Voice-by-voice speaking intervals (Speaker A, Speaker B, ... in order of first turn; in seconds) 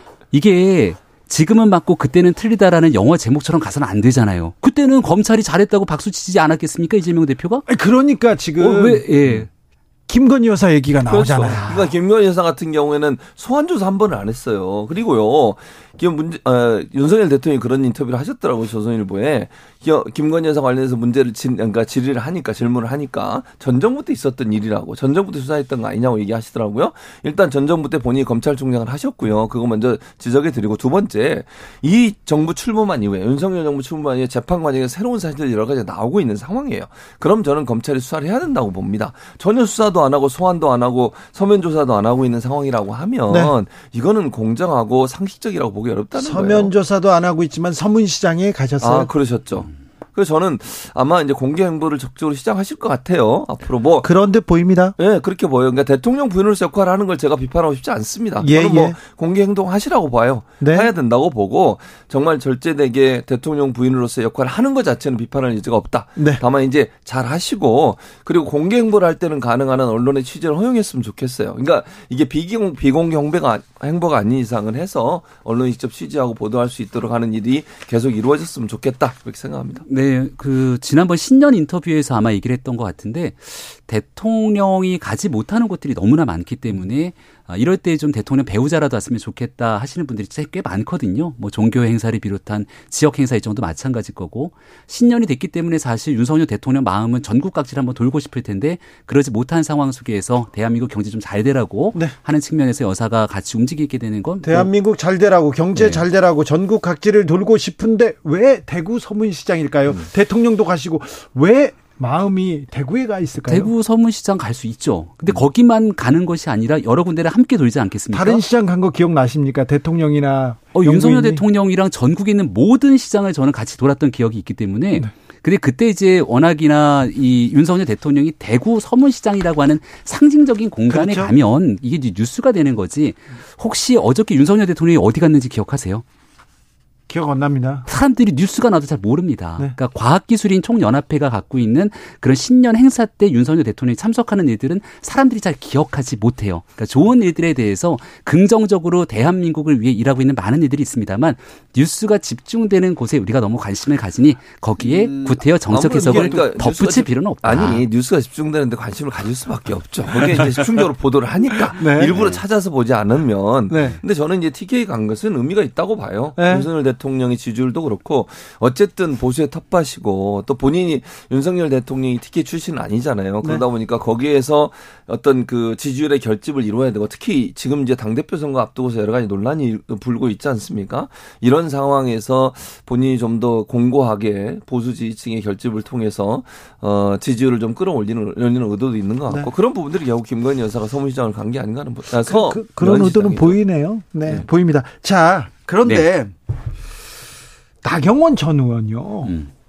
Speaker A: 0.3-7.7, 8.6-9.5, 11.4-11.9, 79.9-104.7, 105.7-106.0, 113.5-118.4, 120.7-136.0, 137.9-157.8, 162.1-162.4
Speaker B: 7.7-9.0, 10.1-11.7, 43.3-43.5, 46.1-49.1, 54.0-54.9, 58.4-59.0, 60.6-60.9, 66.2-66.4, 104.4-113.7, 118.1-121.4, 130.9-131.3, 137.1-137.9, 156.1-156.5, 161.8-162.2, 163.7-163.9, 166.3-166.7, 192.1-196.3, 197.8-199.3
Speaker C: 11.1-46.7, 48.8-54.1, 55.0-79.8, 154.8-193.6